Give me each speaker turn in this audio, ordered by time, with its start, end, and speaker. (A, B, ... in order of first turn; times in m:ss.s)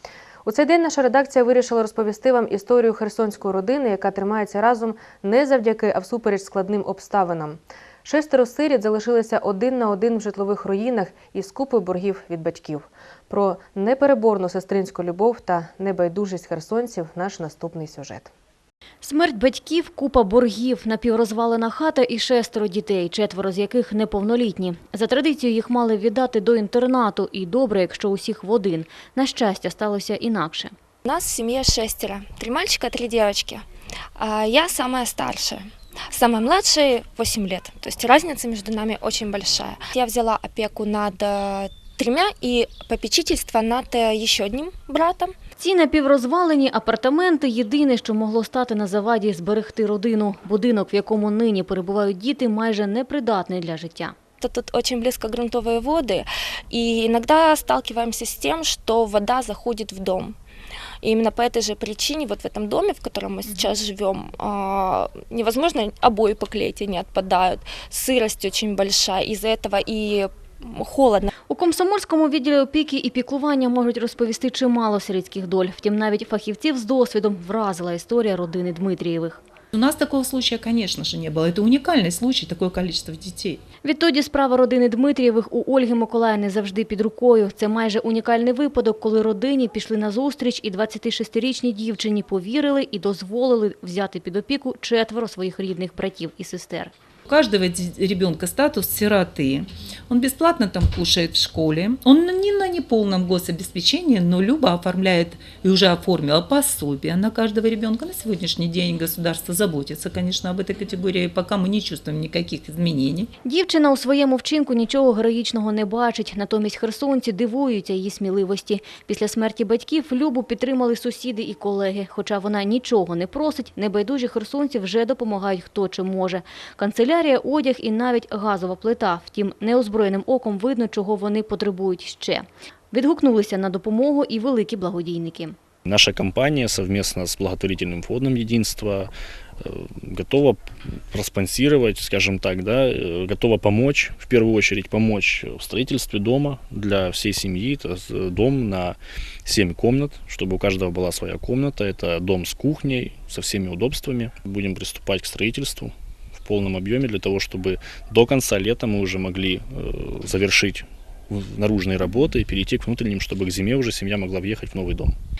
0:00.4-0:18.3 A
0:19.0-0:30.7 B
0:31.0-0:33.6 C
0:34.2-0:45.3 C
0:45.6-0:54.1 B
0:54.4-1:00.4 C
1:01.0-1:11.3 C
1:11.5-1:19.4 B
1:19.7-1:23.6 D
1:23.8-1:36.9 B
1:37.3-1:53.3 D
1:53.4-2:15.6 B
2:15.8-2:20.6 E
2:21.1-2:35.9 E
2:36.4-2:45.1 E